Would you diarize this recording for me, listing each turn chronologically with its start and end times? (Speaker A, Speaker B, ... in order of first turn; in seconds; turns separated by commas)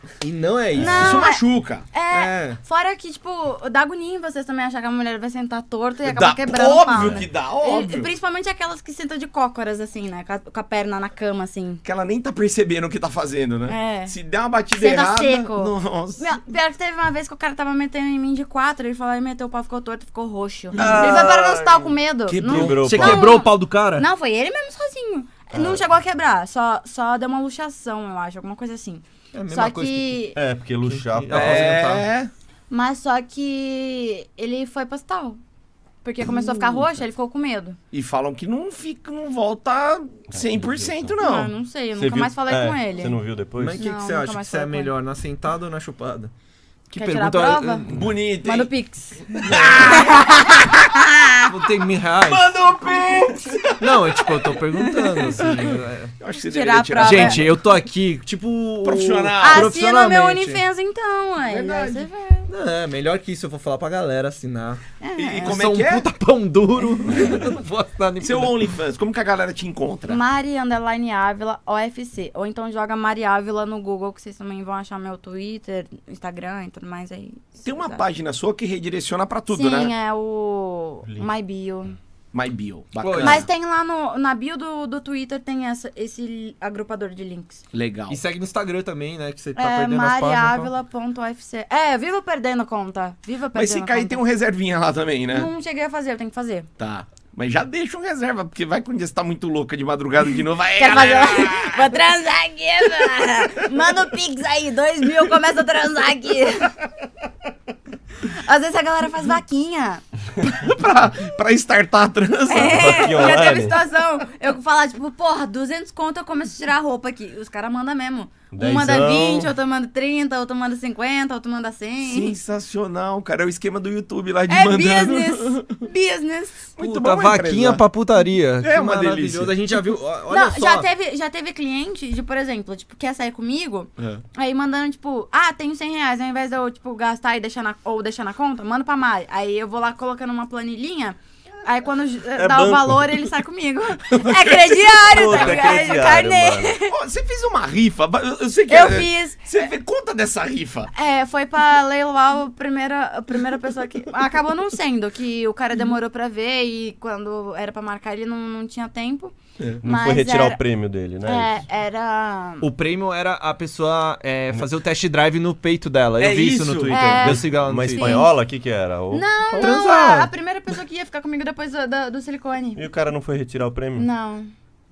Speaker A: 0.2-1.2, Speaker B: 0.8-11.8, Speaker C: 0.8-1.9, Speaker A: 2.1-2.6, Speaker C: 6.0-8.1, Speaker C: 11.8-16.4, Speaker B: 13.7-14.1, Speaker B: 14.8-30.4, Speaker C: 20.8-22.8, Speaker D: 20.8-21.7, Speaker D: 22.4-23.4, Speaker A: 22.8-24.1, Speaker D: 25.5-25.8, Speaker A: 29.3-30.2, Speaker D: 30.4-31.8, Speaker A: 30.9-32.1, Speaker C: 31.3-32.3, Speaker B: 32.7-35.4, Speaker B: 36.0-37.8, Speaker C: 37.9-41.5, Speaker D: 40.3-41.2, Speaker B: 41.2-43.2, Speaker D: 42.0-43.9, Speaker A: 43.6-46.3, Speaker B: 43.8-44.9, Speaker A: 46.9-48.0, Speaker B: 47.0-47.9, Speaker C: 47.9-48.7, Speaker B: 48.4-51.5, Speaker C: 49.3-50.8, Speaker A: 51.5-52.5, Speaker C: 52.2-54.5, Speaker A: 53.8-56.1, Speaker B: 55.0-55.3, Speaker C: 55.4-57.5, Speaker B: 56.4-57.5, Speaker A: 57.0-60.6, Speaker C: 58.8-59.7, Speaker B: 59.4-62.5, Speaker C: 61.5-62.1, Speaker A: 62.5-64.8, Speaker B: 65.0-65.6, Speaker C: 65.2-66.1, Speaker A: 65.4-68.7, Speaker C: 68.2-70.2, Speaker B: 70.1-78.1, Speaker C: 77.6-79.9, Speaker B: 79.5-82.0, Speaker C: 82.3-83.5, Speaker A: 83.0-83.4, Speaker B: 83.2-87.6, Speaker C: 87.7-88.2, Speaker A: 88.1-90.7, Speaker B: 89.6-94.2, Speaker C: 93.5-95.5, Speaker B: 95.3-96.7, Speaker C: 96.8-101.9, Speaker B: 100.8-106.8, Speaker B: 108.2-110.0, Speaker C: 110.4-113.1, Speaker B: 112.5-122.4, Speaker D: 112.5-113.8, Speaker D: 118.5-119.5, Speaker C: 122.0-125.7, Speaker B: 124.5-126.7, Speaker C: 126.8-127.8, Speaker A: 126.8-130.9, Speaker C: 128.6-129.6, Speaker B: 130.3-147.0, Speaker C: 134.0-134.2, Speaker D: 142.4-143.2, Speaker C: 144.1-145.8, Speaker D: 145.1-146.8, Speaker C: 146.9-150.9, Speaker B: 148.7-149.6, Speaker B: 150.9-160.6, Speaker D: 159.8-161.6, Speaker B: 161.2-162.7, Speaker A: 162.6-168.2, Speaker C: 166.2-167.1, Speaker B: 166.9-168.3, Speaker D: 167.1-169.8, Speaker B: 169.1-172.8, Speaker A: 169.6-170.3, Speaker D: 172.8-174.1, Speaker B: 174.0-174.5